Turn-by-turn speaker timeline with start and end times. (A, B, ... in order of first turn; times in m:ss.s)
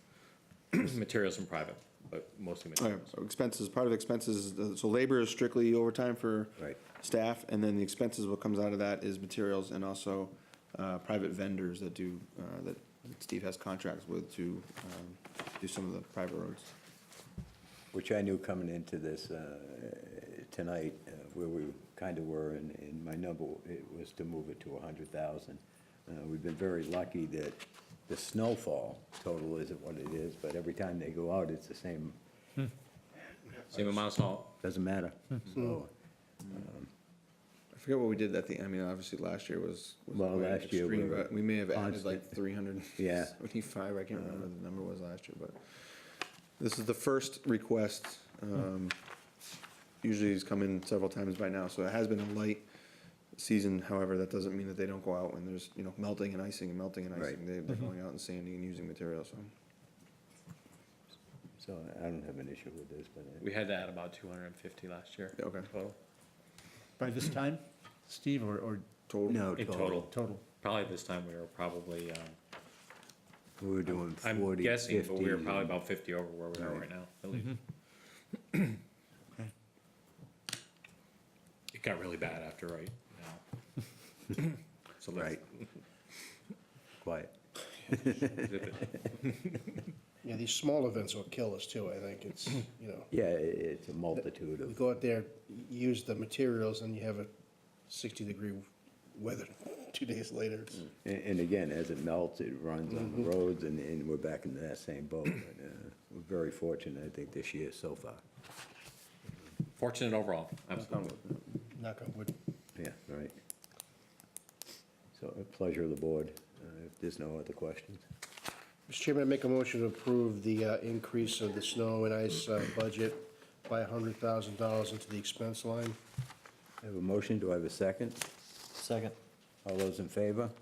0:00.7-0:03.1 A
0:02.8-0:16.7 B
0:17.9-0:32.2 C
0:33.7-0:34.5 A
0:34.6-0:35.9 C
0:36.5-0:36.9 C
0:37.7-0:49.0 B
0:40.1-0:42.4 C
0:43.0-0:43.4 C
0:44.2-0:44.5 C
0:50.0-0:52.7 B
0:53.3-0:59.5 B
0:57.1-0:57.4 C
1:01.6-1:03.4 C
1:03.4-1:06.0 A
1:05.4-1:05.7 B
1:07.0-1:08.9 D
1:09.1-1:09.5 B
1:09.3-1:10.1 C
1:09.6-1:10.1 A
1:10.0-1:10.4 D
1:10.6-1:12.4 A
1:13.6-1:15.8 C
1:14.2-1:17.6 A
1:16.6-1:16.8 C
1:18.5-1:18.8 A
1:21.7-1:23.4 A
1:24.3-1:25.4 A
1:25.2-1:25.4 C
1:27.0-1:27.4 C
1:27.9-1:28.8 C
1:30.2-1:33.1 E
1:33.1-1:34.8 C
1:34.2-1:37.3 E
1:37.9-1:40.9 E
1:41.0-1:48.2 C
1:43.0-1:43.2 E
1:49.8-1:51.0 A
1:50.8-1:51.6 B
1:51.7-1:52.3 E
1:52.8-1:53.4 C
1:55.1-1:58.0 C
1:58.9-2:06.0 E
2:06.8-2:08.2 C
2:09.6-2:10.5 C